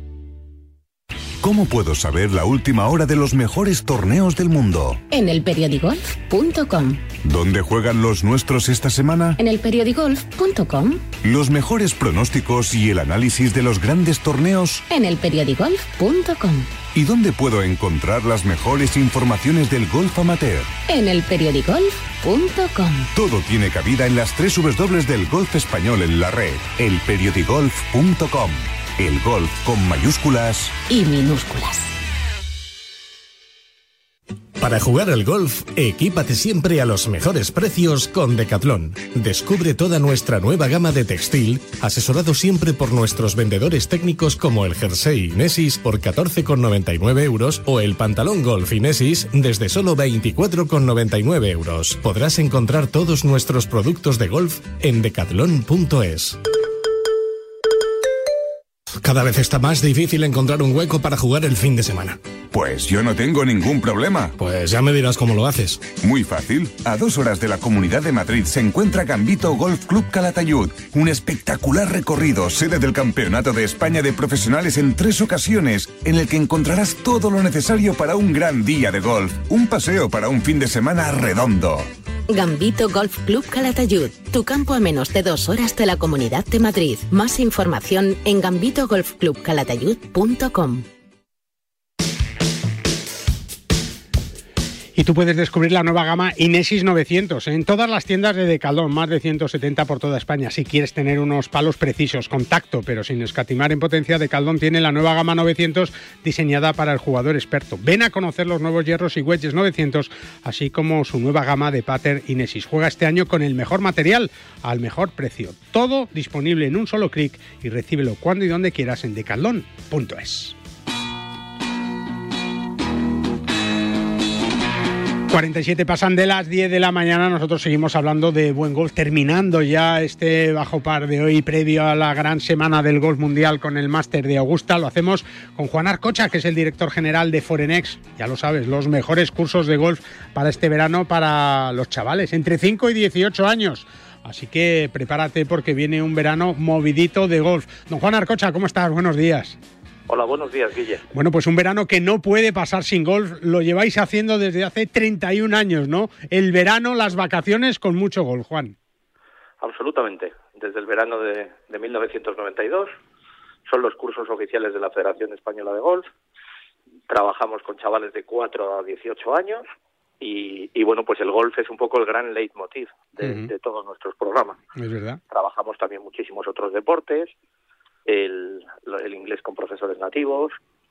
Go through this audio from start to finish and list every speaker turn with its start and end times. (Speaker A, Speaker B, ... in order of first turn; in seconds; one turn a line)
Speaker A: 1.4-5.0
Speaker B: 5.1-7.0
Speaker A: 7.2-9.4
Speaker B: 9.4-11.0
Speaker A: 11.2-14.8
Speaker B: 14.9-16.7
Speaker A: 16.9-20.7
Speaker B: 20.9-23.1
Speaker A: 23.1-30.7
Speaker B: 30.9-31.9
Speaker C: 34.6-56.4
Speaker C: 59.0-62.2
Speaker A: 62.5-64.3
Speaker C: 64.4-65.8
Speaker A: 66.0-81.9
Speaker B: 82.3-90.8
Speaker D: 95.0-120.5
Speaker D: 125.3-149.6
Speaker E: 150.1-151.1
Speaker D: 151.1-158.8
Speaker E: 159.6-162.9
Speaker E: 163.7-166.1
Speaker E: 167.1-169.7
Speaker E: 170.2-174.6
Speaker D: 173.2-173.5
Speaker D: 174.8-175.2
Speaker E: 175.3-177.3
Speaker E: 178.1-180.6